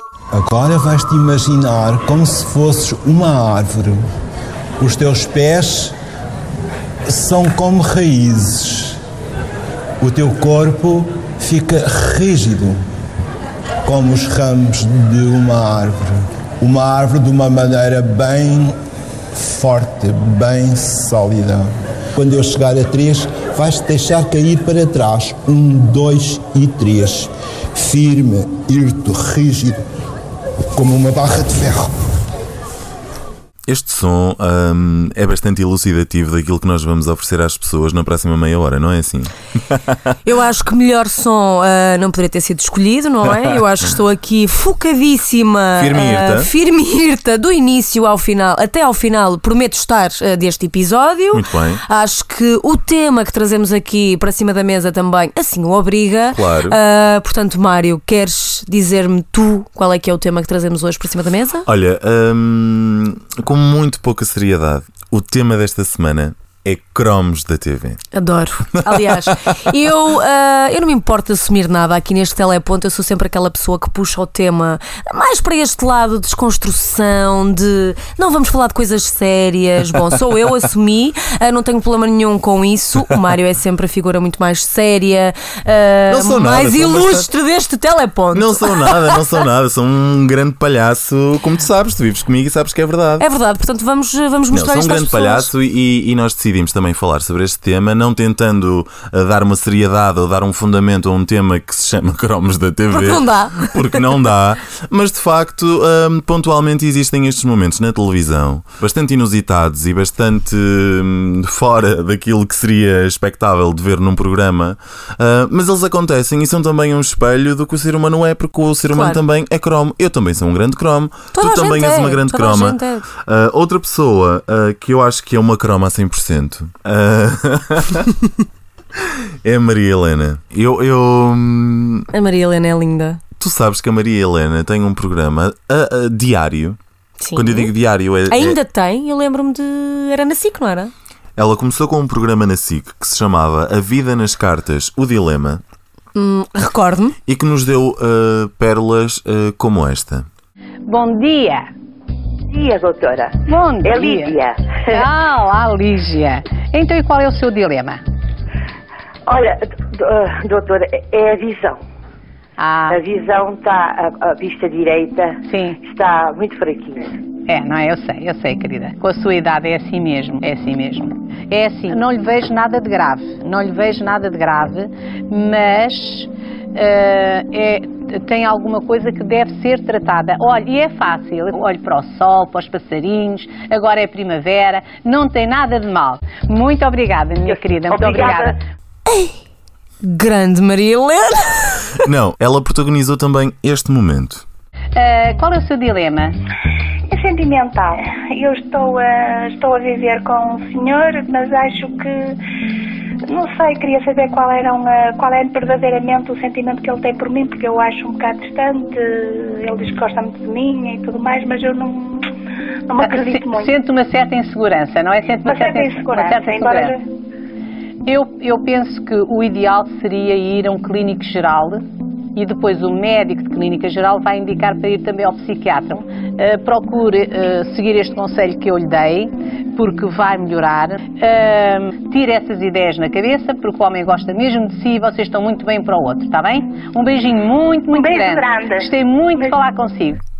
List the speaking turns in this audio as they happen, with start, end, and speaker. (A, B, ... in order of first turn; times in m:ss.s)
0:00.3-0:04.0 A
0:04.8-0:05.9 A
0:07.1-0:09.0 A
0:10.0-0:12.8 A
0:13.8-0:18.8 A
0:19.3-0:29.8 A
0:30.7-0:31.9 A
0:33.7-0:39.9 B
0:40.2-1:01.7 C
0:45.8-0:46.5 B
0:51.3-0:51.8 B
0:56.3-0:56.8 B
1:01.6-1:08.0 B
1:08.1-1:29.2 C
1:08.9-1:09.3 B
1:26.1-1:27.3 B
1:28.3-1:33.2 B
1:33.2-1:35.5 C
1:34.5-2:08.1 B
1:42.9-1:44.0 C
1:58.9-1:59.2 C
2:01.3-2:03.0 C
2:09.4-2:12.1 B
2:12.1-2:13.2 C
2:13.4-2:16.8 B
2:17.2-2:17.7 C
2:17.3-2:18.6 B
2:18.3-2:20.9 C
2:21.4-2:25.6 B
2:26.1-2:27.2 C
2:27.3-2:30.2 B
2:30.9-2:31.7 D
2:32.5-2:35.0 E
2:33.5-2:34.4 D
2:34.9-2:38.0 D
2:39.3-2:41.8 E
2:42.6-2:43.0 D
2:42.9-2:47.1 E
2:45.5-2:45.8 D
2:47.5-3:08.6 D
3:07.5-3:08.6 E
3:09.1-3:09.4 C
3:10.0-3:11.9 C
3:12.0-3:14.4 B
3:15.0-3:16.4 D
3:17.1-3:22.4 F
3:23.3-3:32.3 F
3:32.9-3:33.7 F
3:33.0-3:37.0 D
3:35.4-3:37.0 F
3:38.0-3:41.8 D
3:42.3-4:00.2 D
3:57.9-3:59.6 F